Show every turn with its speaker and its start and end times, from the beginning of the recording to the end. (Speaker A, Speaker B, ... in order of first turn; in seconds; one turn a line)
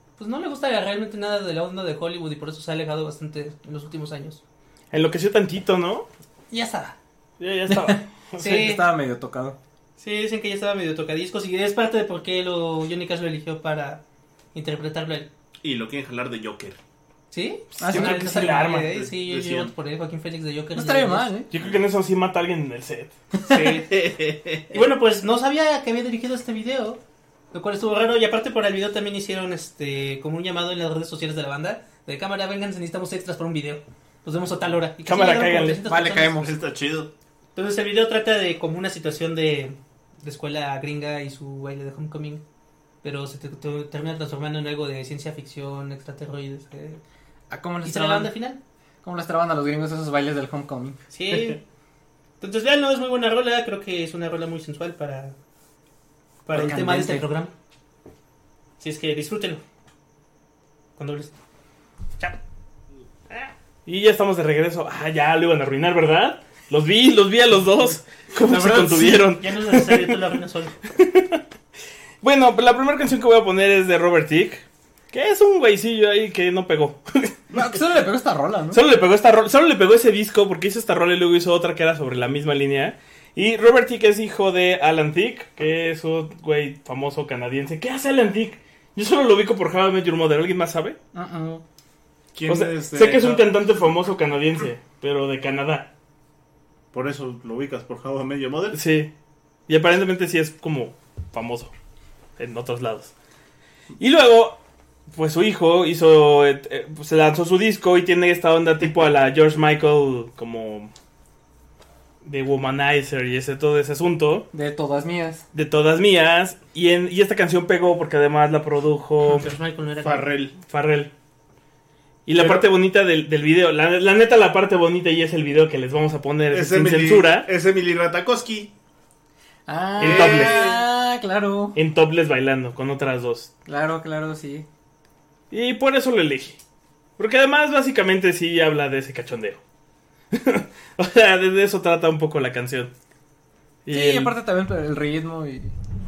Speaker A: 0.2-4.4
Speaker B: 4.9-6.1
Speaker A: 6.5-7.0
Speaker B: 7.4-8.7
Speaker C: 7.7-9.6
Speaker A: 8.4-8.8
Speaker A: 10.0-14.0
Speaker A: 14.5-15.3
Speaker D: 15.6-16.8
Speaker A: 17.3-21.3
Speaker C: 17.8-18.6
Speaker B: 17.9-18.9
Speaker D: 18.9-19.7
Speaker C: 20.7-21.5
Speaker B: 21.5-23.1
Speaker A: 23.5-23.9
Speaker D: 23.5-24.8
Speaker A: 24.7-27.0
Speaker A: 27.5-36.4
Speaker B: 35.0-35.8
Speaker C: 35.9-36.5
Speaker D: 36.3-37.1
Speaker A: 37.5-42.4
Speaker A: 43.0-47.0
Speaker C: 47.5-48.3
Speaker A: 47.8-48.6
Speaker C: 49.0-51.0
Speaker A: 51.1-51.6
Speaker A: 52.4-55.3
Speaker A: 56.5-57.5
Speaker C: 56.5-57.3
Speaker A: 58.8-59.6
Speaker A: 61.0-61.3
Speaker B: 63.9-70.2
Speaker C: 68.3-69.3
Speaker A: 69.3-70.8
Speaker B: 70.9-71.4
Speaker B: 72.2-77.4
Speaker C: 77.5-78.8
Speaker B: 78.7-91.0
Speaker C: 91.1-91.6
Speaker D: 92.3-93.5
Speaker B: 92.5-95.9
Speaker D: 96.9-98.8
Speaker B: 98.7-99.1
Speaker B: 99.7-101.7
Speaker B: 102.4-103.1
Speaker B: 104.0-104.6
Speaker B: 105.1-110.9
Speaker B: 112.2-114.5
Speaker C: 114.5-115.4
Speaker B: 115.5-119.5
Speaker A: 119.2-120.3
Speaker D: 120.0-120.5
Speaker B: 120.6-121.1
Speaker B: 122.2-127.5
Speaker D: 122.3-122.7
Speaker D: 126.5-128.7
Speaker C: 129.7-131.8
Speaker B: 130.0-130.6
Speaker D: 130.0-130.8
Speaker B: 131.7-133.5
Speaker C: 133.7-134.7
Speaker B: 135.5-136.6
Speaker B: 137.2-139.6
Speaker B: 140.3-142.9
Speaker B: 143.8-144.3
Speaker C: 143.9-145.7